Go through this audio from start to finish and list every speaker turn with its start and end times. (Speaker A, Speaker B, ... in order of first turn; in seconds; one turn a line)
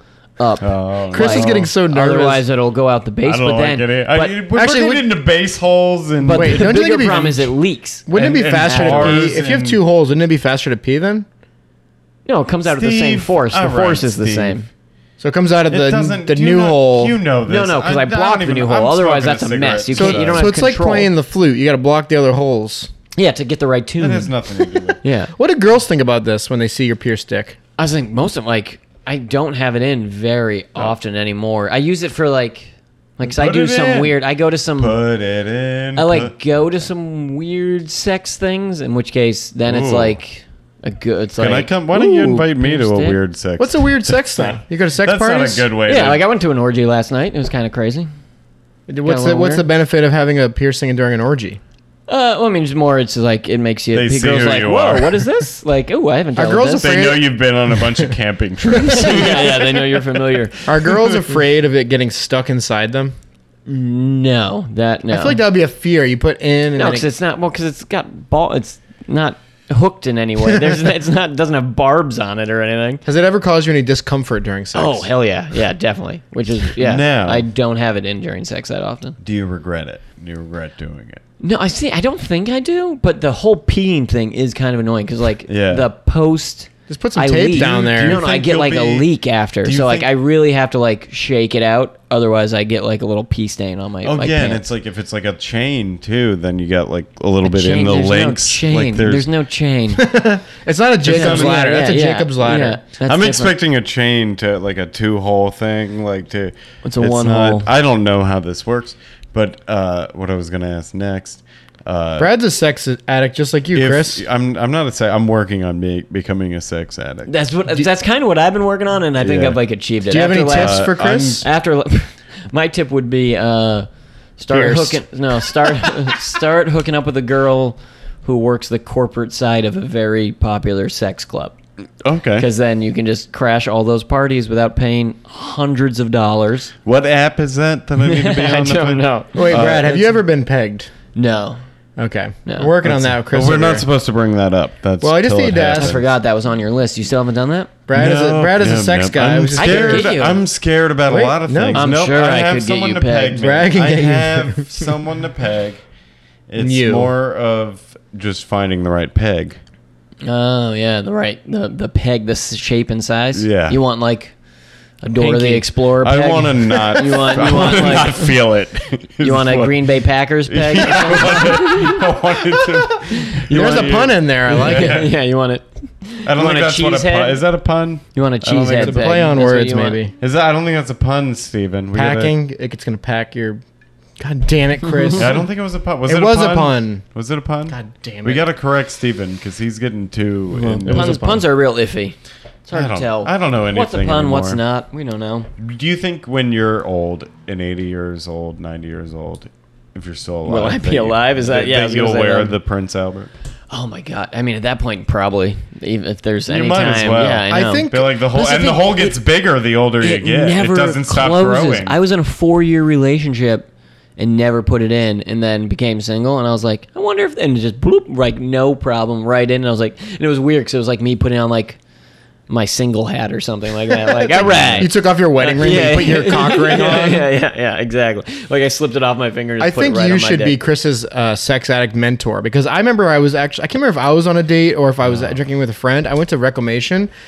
Speaker A: 0.4-4.4
Speaker B: 0.6-1.7
Speaker C: 1.1-2.4
Speaker B: 3.2-6.7
Speaker C: 4.5-5.0
Speaker A: 6.2-9.3
Speaker C: 6.3-7.5
Speaker C: 8.1-11.3
Speaker B: 8.1-9.8
Speaker A: 12.2-14.7
Speaker B: 12.7-14.6
Speaker C: 15.2-17.2
Speaker B: 15.7-20.5
Speaker A: 17.4-21.1
Speaker C: 19.9-22.9
Speaker A: 23.1-24.3
Speaker B: 24.0-25.0
Speaker A: 25.0-25.3
Speaker C: 25.4-27.6
Speaker A: 27.8-35.0
Speaker B: 33.2-34.1
Speaker B: 34.8-36.3
Speaker A: 36.0-43.1
Speaker B: 39.7-40.2
Speaker B: 41.4-46.2
Speaker C: 43.6-45.7
Speaker A: 45.9-48.1
Speaker C: 48.9-51.6
Speaker A: 49.0-49.6
Speaker A: 52.1-56.9
Speaker B: 53.9-55.3
Speaker C: 56.4-58.1
Speaker B: 56.8-61.3
Speaker A: 58.7-60.7
Speaker C: 58.9-59.2
Speaker C: 60.6-63.1
Speaker A: 63.7-65.4
Speaker C: 65.1-67.1
Speaker A: 66.8-73.0
Speaker C: 70.5-70.8
Speaker C: 73.0-75.1
Speaker A: 74.7-79.2
Speaker B: 76.8-77.5
Speaker B: 79.2-81.2
Speaker A: 81.4-94.6
Speaker B: 85.5-85.9
Speaker C: 86.9-88.2
Speaker B: 87.5-89.1
Speaker B: 89.6-90.1
Speaker B: 94.0-99.3
Speaker A: 97.4-100.1
Speaker C: 99.9-102.8
Speaker B: 101.0-101.7
Speaker A: 101.0-103.5
Speaker B: 103.0-112.3
Speaker A: 106.8-107.7
Speaker C: 112.2-114.2
Speaker B: 113.7-117.3
Speaker A: 117.3-131.6
Speaker B: 119.2-119.6
Speaker C: 120.1-121.5
Speaker B: 120.5-121.5
Speaker C: 124.5-125.0
Speaker B: 132.0-132.5
Speaker A: 132.4-136.7
Speaker B: 136.8-140.1
Speaker A: 138.0-139.8
Speaker C: 139.3-140.9
Speaker A: 141.1-141.6
Speaker C: 142.0-143.8
Speaker A: 142.4-142.7
Speaker B: 142.8-146.0
Speaker C: 145.0-146.0
Speaker A: 145.7-147.7
Speaker C: 147.9-150.2
Speaker B: 147.9-155.8
Speaker A: 149.6-150.4
Speaker C: 151.1-151.9
Speaker A: 151.7-153.5
Speaker C: 153.3-154.9
Speaker B: 156.5-159.6
Speaker C: 156.6-157.1
Speaker A: 160.2-164.3
Speaker B: 163.3-163.8
Speaker A: 165.0-168.3
Speaker C: 165.1-165.6
Speaker B: 165.9-169.9
Speaker A: 169.2-172.0
Speaker B: 170.5-175.1
Speaker A: 173.1-173.9
Speaker C: 173.5-175.1
Speaker A: 174.5-177.4
Speaker B: 176.2-179.1
Speaker A: 178.1-180.0
Speaker C: 178.7-180.1
Speaker B: 180.2-182.3
Speaker C: 181.9-183.6
Speaker C: 184.2-185.4
Speaker B: 185.2-191.3
Speaker C: 186.1-187.0
Speaker C: 187.7-188.5
Speaker A: 190.6-192.1
Speaker C: 190.6-191.4
Speaker A: 192.7-195.5
Speaker B: 192.7-194.6
Speaker B: 195.6-203.3
Speaker A: 200.4-202.5
Speaker A: 203.7-209.2
Speaker B: 206.5-212.0
Speaker C: 207.5-208.1
Speaker A: 210.0-213.7
Speaker A: 214.2-221.8
Speaker A: 222.5-230.6
Speaker C: 224.0-227.3
Speaker B: 224.5-224.8
Speaker C: 229.6-237.1